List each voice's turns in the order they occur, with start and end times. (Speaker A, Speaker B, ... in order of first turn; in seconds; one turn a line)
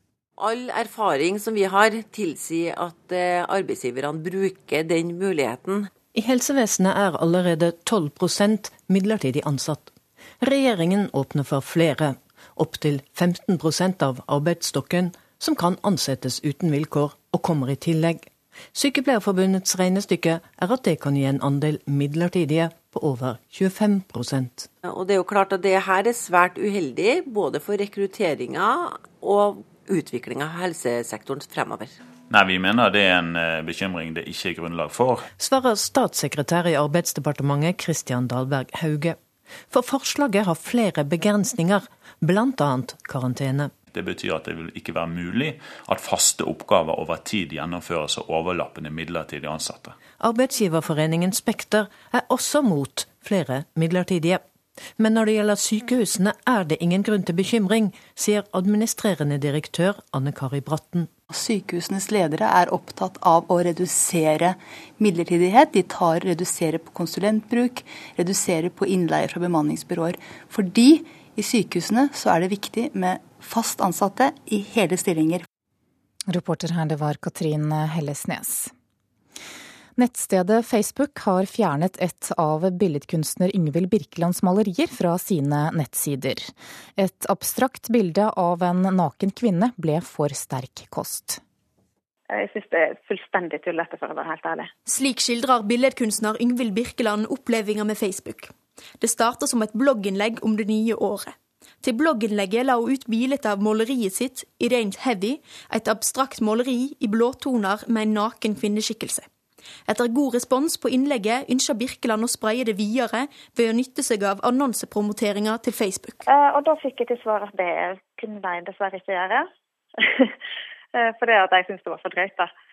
Speaker A: 0.4-5.9
Speaker B: 6.1-24.7
Speaker A: 24.8-32.0
Speaker C: 32.3-35.2
Speaker B: 35.4-39.2
Speaker B: 39.7-43.7
Speaker C: 43.9-50.0
Speaker B: 50.2-54.4
Speaker B: 55.0-61.1
Speaker D: 61.3-75.4
Speaker E: 76.3-78.7
Speaker E: 80.0-91.4
Speaker F: 92.3-94.7
Speaker G: 94.8-109.2
Speaker G: 109.9-116.2
Speaker F: 116.3-119.5
Speaker F: 120.0-120.3
Speaker F: 120.9-122.5